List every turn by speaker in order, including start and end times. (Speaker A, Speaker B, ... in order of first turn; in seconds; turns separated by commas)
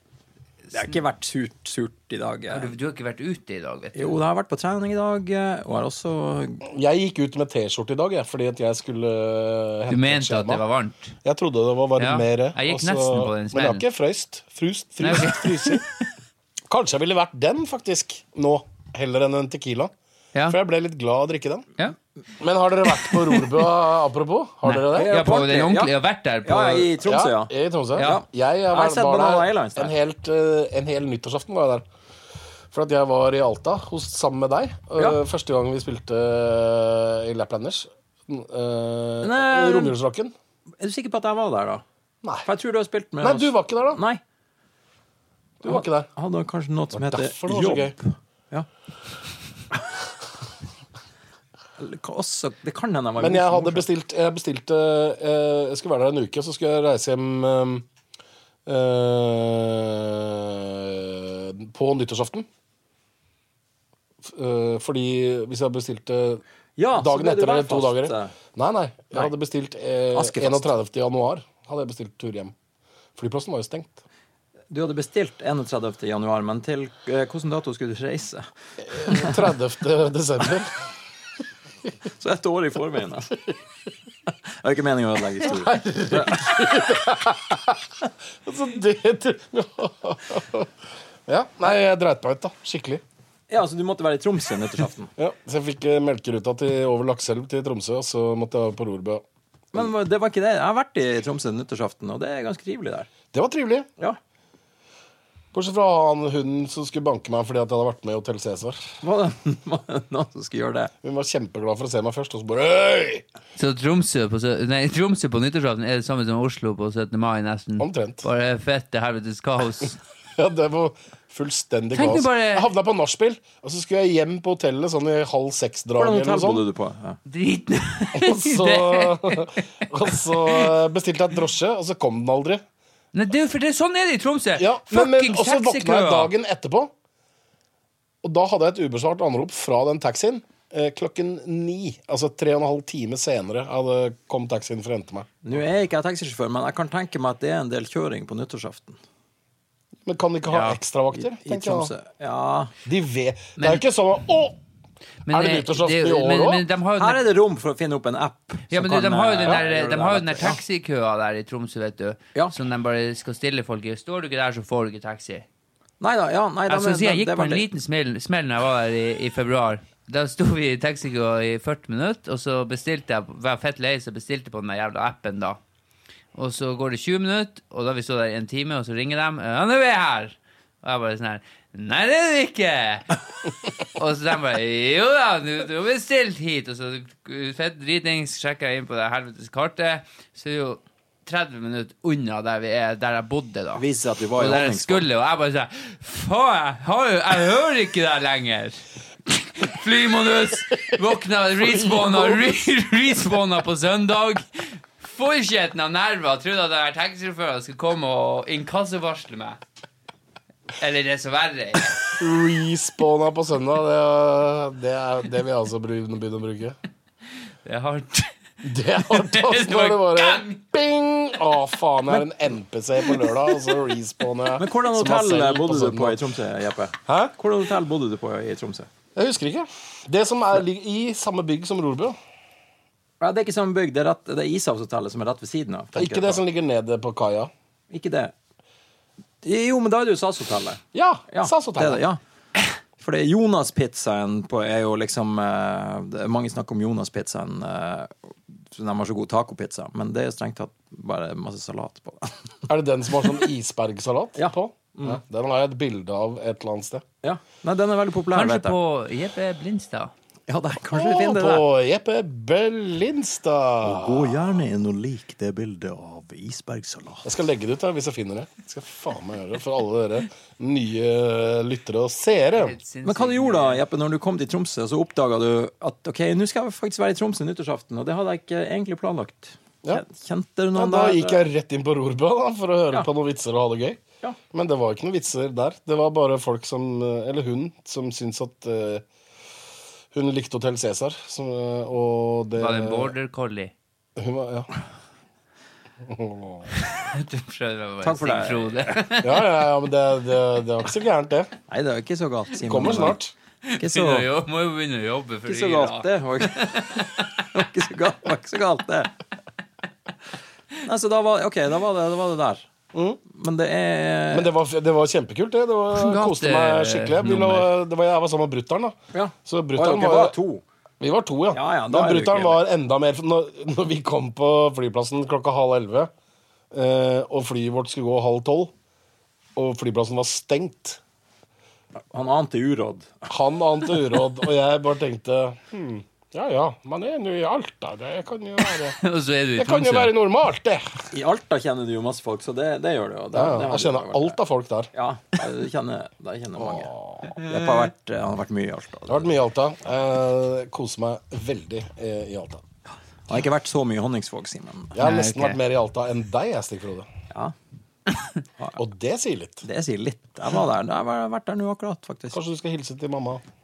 Speaker A: 0.7-2.7, Speaker B: 2.5-4.2, Speaker A: 4.0-6.6, Speaker C: 6.7-10.6, Speaker B: 9.9-11.2, Speaker C: 11.2-15.8, Speaker B: 12.0-13.8, Speaker B: 15.0-16.1, Speaker C: 16.7-19.9, Speaker C: 20.5-21.7, Speaker C: 22.4-25.2, Speaker B: 22.9-23.6, Speaker B: 24.6-26.9, Speaker A: 24.9-29.9, Speaker C: 27.0-31.9, Speaker C: 32.7-40.3, Speaker A: 39.2-40.0, Speaker A: 40.8-41.8, Speaker A: 42.5-44.2, Speaker C: 43.2-44.0, Speaker C: 45.6-46.1, Speaker A: 45.6-48.7, Speaker C: 46.9-48.0, Speaker A: 51.8-53.9, Speaker C: 53.2-57.9, Speaker C: 58.7-62.5, Speaker C: 64.2-66.4, Speaker A: 66.8-68.3, Speaker C: 66.9-72.5, Speaker A: 70.1-70.7, Speaker C: 73.2-74.0, Speaker A: 74.7-79.5, Speaker C: 78.8-80.7, Speaker A: 82.2-83.3, Speaker A: 84.6-86.7, Speaker C: 85.4-90.7, Speaker C: 91.3-93.0, Speaker A: 93.5-95.1, Speaker C: 95.2-99.2, Speaker A: 99.7-103.1, Speaker C: 103.3-103.9, Speaker C: 105.5-108.9, Speaker A: 109.0-110.9, Speaker C: 111.0-113.2, Speaker B: 113.6-120.0, Speaker C: 117.8-118.2, Speaker C: 120.4-126.6, Speaker B: 121.9-122.7, Speaker A: 126.0-127.2, Speaker B: 127.3-130.7, Speaker C: 128.1-132.6, Speaker B: 133.1-136.3, Speaker C: 134.6-136.9, Speaker C: 138.2-145.3, Speaker A: 145.4-149.0, Speaker C: 150.1-151.9, Speaker B: 150.5-150.8, Speaker A: 151.2-152.7, Speaker C: 152.9-154.6, Speaker B: 153.6-153.8, Speaker B: 155.3-157.2, Speaker C: 155.3-156.7, Speaker A: 157.0-160.6, Speaker B: 158.7-165.5, Speaker A: 166.0-167.7, Speaker B: 166.7-175.6, Speaker B: 176.3-183.2, Speaker B: 183.9-193.8, Speaker A: 193.8-195.1, Speaker B: 194.4-209.6, Speaker C: 201.7-202.4, Speaker B: 210.8-212.1, Speaker C: 212.2-216.8, Speaker B: 217.7-218.3, Speaker C: 218.6-226.2, Speaker B: 219.0-220.6, Speaker A: 224.6-228.9, Speaker C: 227.1-227.3, Speaker C: 229.2-232.2, Speaker A: 233.2-236.4, Speaker C: 235.9-237.5, Speaker A: 237.9-238.3, Speaker A: 239.4-242.2, Speaker C: 240.9-242.0, Speaker A: 243.0-252.5, Speaker C: 252.7-257.1, Speaker A: 254.4-255.2, Speaker A: 257.2-258.8, Speaker B: 258.3-260.1, Speaker A: 260.5-261.6, Speaker C: 260.9-264.6, Speaker A: 263.8-267.3, Speaker C: 267.2-272.8, Speaker B: 272.6-273.8, Speaker A: 273.1-281.4, Speaker C: 280.8-289.1, Speaker C: 290.1-293.1, Speaker B: 292.6-293.7, Speaker C: 294.2-294.7, Speaker C: 296.0-296.7, Speaker B: 296.7-299.4, Speaker A: 298.0-298.9, Speaker C: 299.2-301.5, Speaker A: 301.7-303.2, Speaker C: 302.6-303.3, Speaker B: 303.6-307.5, Speaker A: 303.8-304.3, Speaker A: 305.5-309.1, Speaker A: 310.8-312.7, Speaker C: 312.9-313.2, Speaker A: 313.3-314.5, Speaker C: 314.3-320.4, Speaker B: 315.9-317.7, Speaker A: 319.1-320.6, Speaker C: 321.0-326.1, Speaker A: 321.5-322.6, Speaker C: 326.7-328.7, Speaker C: 329.6-331.0, Speaker A: 332.0-333.3, Speaker C: 333.3-339.0, Speaker B: 338.9-340.1, Speaker C: 339.6-340.8, Speaker A: 341.1-344.4, Speaker C: 343.3-344.9, Speaker A: 344.9-349.3, Speaker C: 346.6-347.4, Speaker C: 349.1-352.6, Speaker A: 353.3-355.0, Speaker C: 354.9-357.1, Speaker B: 355.0-355.6, Speaker C: 358.8-359.6, Speaker A: 359.6-362.4, Speaker C: 362.3-363.4